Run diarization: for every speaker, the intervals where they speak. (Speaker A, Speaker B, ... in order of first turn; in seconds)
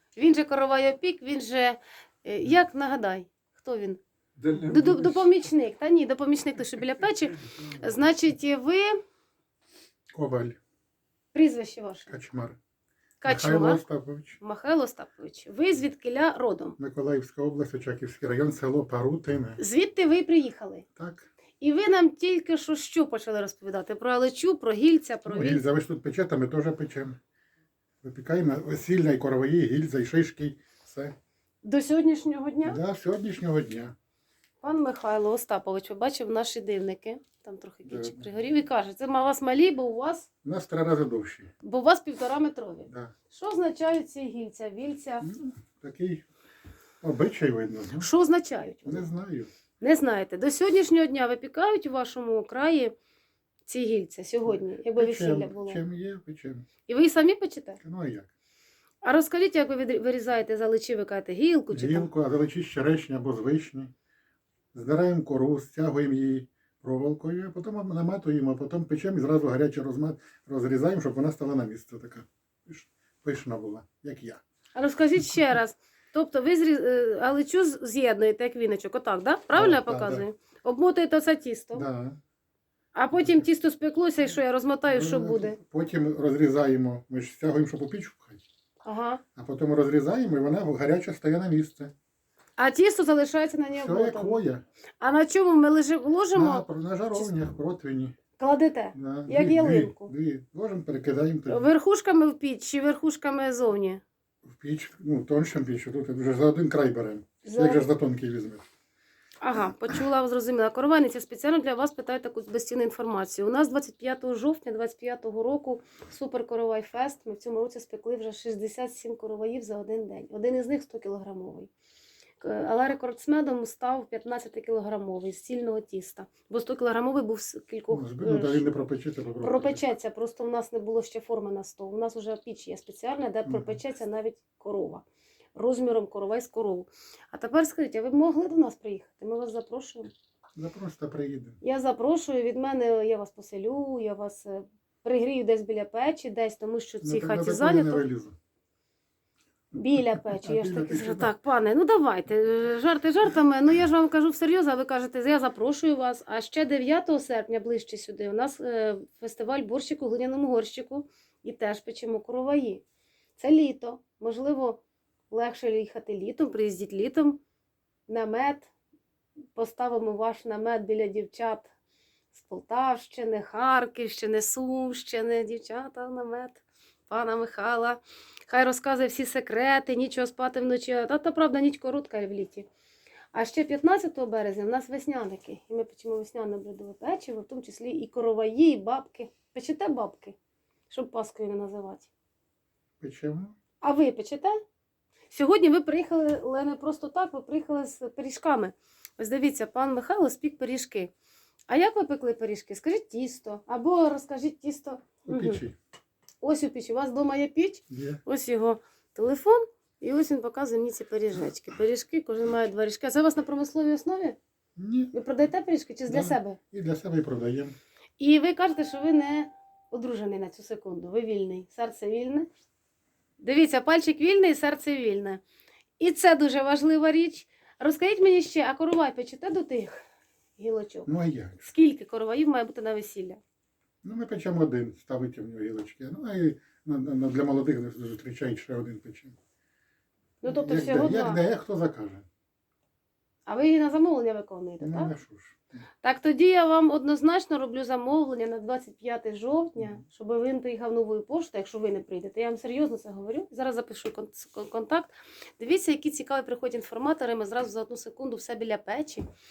Speaker A: 0.1-4.0, 4.6-9.0, 11.3-12.1, 13.2-13.8, 14.4-16.8, 19.6-20.8, 21.6-25.6, 31.6-32.8, 34.6-40.3, 41.6-45.2, 48.0-49.1, 49.8-52.9, 53.7-55.8, 56.9-57.8, 59.0-62.1, 74.7-81.8, 82.9-85.6, 88.8-89.2, 92.6-94.4, 95.0-97.3, 98.4-100.1, 101.5-104.0, 107.4-107.8, 109.4-121.7, 122.4-128.6, 129.4-135.0, 135.5-140.1, 141.6-148.0, 149.7-162.8, 163.4-164.8, 165.3-167.4, 168.1-168.7, 169.6-171.7, 172.3-182.7, 183.3-190.3, 190.9-192.1, 193.8-194.6, 195.3-201.1, 201.7-205.6, 206.4-214.4, 215.1-216.6, 218.2-222.5, 223.4-225.4, 226.0-230.0, 230.6-231.1, 231.6-233.4, 240.4-241.4, 243.4-245.1, 246.0-259.2
Speaker B: 4.4-5.3, 10.1-10.6, 12.1-12.6, 13.2-14.4, 16.8-19.6, 21.0-21.3, 25.2-27.2, 28.0-31.1, 32.6-33.9, 37.8-38.3, 40.4-41.5, 45.2-46.2, 47.0-48.1, 48.8-49.5, 54.5-56.6, 57.8-58.3, 61.7-63.9, 64.7-74.4, 75.2-75.5, 79.5-80.2, 81.7-82.2, 83.1-83.4, 84.9-88.4, 89.3-91.9, 93.7-94.6, 96.3-98.1, 98.9-101.7, 104.4-108.7, 127.9-129.8, 133.4-133.8, 140.6-141.6, 147.0-148.3, 150.1-151.3, 193.0-193.6, 205.2-205.8, 207.9-208.2, 214.8-215.1, 216.1-217.7, 231.1-231.7, 234.0-239.3, 240.4-242.2, 244.8-245.8